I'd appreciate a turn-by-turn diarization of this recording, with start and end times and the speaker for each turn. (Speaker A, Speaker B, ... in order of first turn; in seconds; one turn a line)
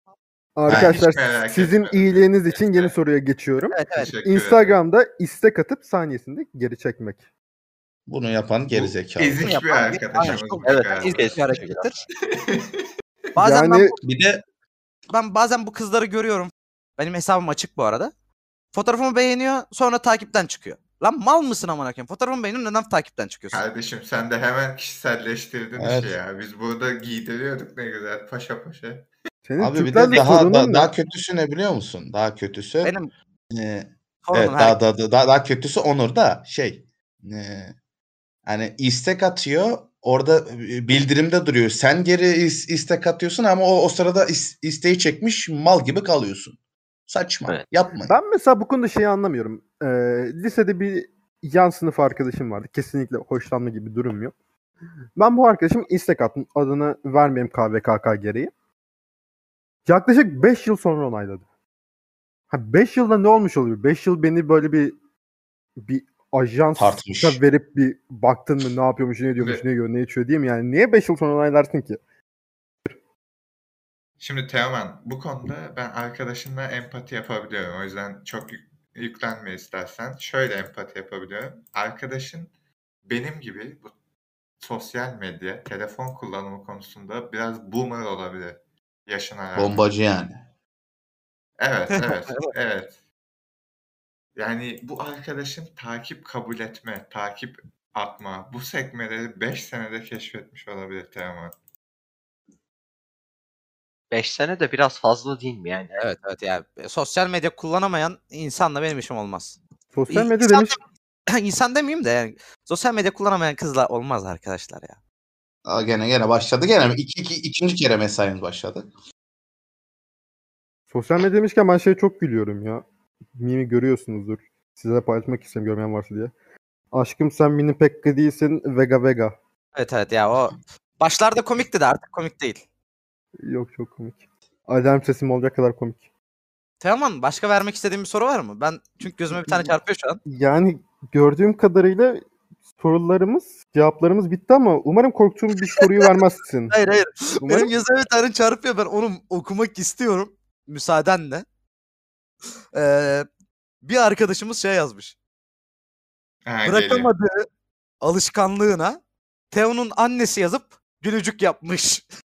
Speaker A: 0.6-7.2
Speaker B: 0.7-2.9
Speaker C: 0.7-1.0
Speaker D: 3.7-4.1
Speaker B: 3.9-4.8
Speaker C: 8.1-9.4
Speaker B: 8.7-12.9
Speaker D: 9.4-12.0
Speaker E: 10.6-11.9
Speaker D: 13.3-14.0
Speaker A: 13.4-13.9
Speaker C: 14.0-14.4
Speaker D: 15.1-18.1
Speaker D: 18.7-23.6
Speaker B: 23.5-29.1
Speaker C: 25.8-26.1
Speaker A: 29.4-30.9
Speaker C: 29.6-32.9
Speaker D: 32.8-33.1
Speaker C: 33.5-37.7
Speaker D: 34.2-34.8
Speaker C: 38.5-46.6
Speaker C: 47.1-48.1
Speaker A: 48.1-54.3
Speaker A: 55.1-58.5
Speaker A: 59.9-61.4
Speaker A: 62.5-64.9
Speaker A: 65.8-72.0
Speaker C: 66.8-67.4
Speaker B: 69.4-69.6
Speaker B: 74.2-82.5
Speaker B: 83.0-83.9
Speaker B: 84.6-89.9
Speaker C: 89.5-90.4
Speaker B: 91.6-92.9
Speaker D: 92.1-92.5
Speaker B: 94.3-101.5
Speaker E: 104.1-106.0
Speaker D: 106.0-109.6
Speaker A: 109.9-110.8
Speaker D: 110.1-115.0
Speaker C: 115.7-118.9
Speaker A: 120.9-122.8
Speaker A: 123.3-126.3
Speaker A: 126.9-129.3
Speaker D: 129.7-132.6
Speaker A: 133.4-136.0
Speaker D: 136.8-140.2
Speaker A: 139.3-139.7
Speaker A: 140.2-142.2
Speaker A: 142.8-146.7
Speaker D: 145.6-146.1
Speaker D: 146.7-151.4
Speaker A: 147.4-147.7
Speaker D: 152.7-153.3
Speaker D: 153.8-155.1
Speaker B: 156.4-157.1
Speaker D: 156.6-157.4
Speaker D: 158.0-159.0
Speaker D: 159.5-162.0